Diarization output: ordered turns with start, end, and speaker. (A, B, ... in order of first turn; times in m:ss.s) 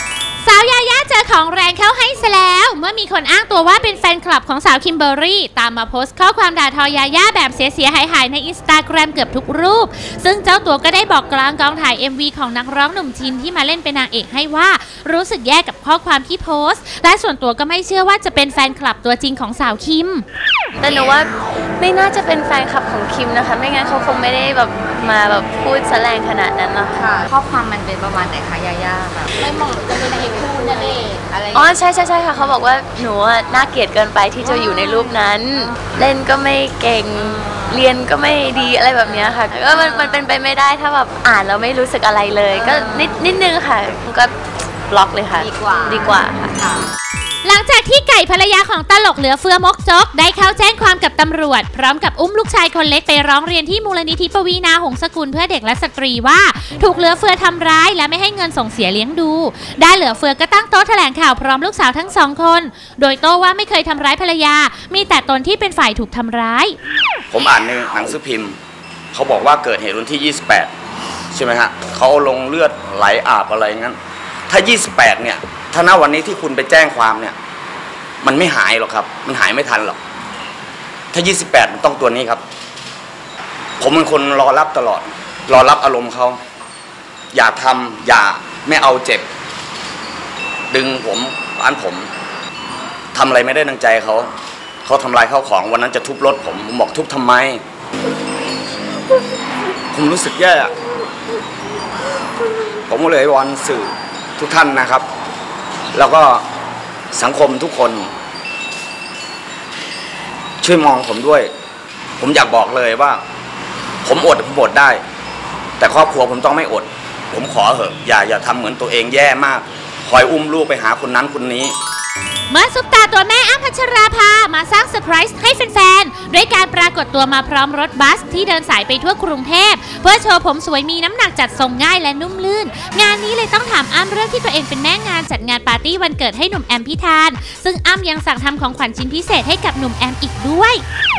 0:00.4-0:20.2 A
0:20.8-0:27.3 B
0:27.0-0:31.8 C
0:31.5-0:44.4 B
0:42.7-0:43.0 C
0:44.9-0:46.6 B
0:45.4-0:46.8 C
0:47.4-1:06.8 A
1:07.3-1:08.6 D
1:09.1-1:10.7 D
1:11.3-1:14.0 D
1:14.5-1:17.3 D
1:18.2-1:20.0 D
1:21.1-1:22.4 D
1:23.8-1:26.4 D
1:27.3-1:29.3 D
1:30.7-1:32.1 D
1:33.1-1:34.3 D
1:34.8-1:37.6 D
1:39.9-1:40.7 D
1:42.9-1:45.0 D
1:45.9-1:46.4 D
1:47.1-1:48.1 D
1:50.6-1:51.5 D
1:52.2-1:53.2 D
1:54.0-1:55.0 D
1:55.8-2:01.7 D
2:02.5-2:20.8 A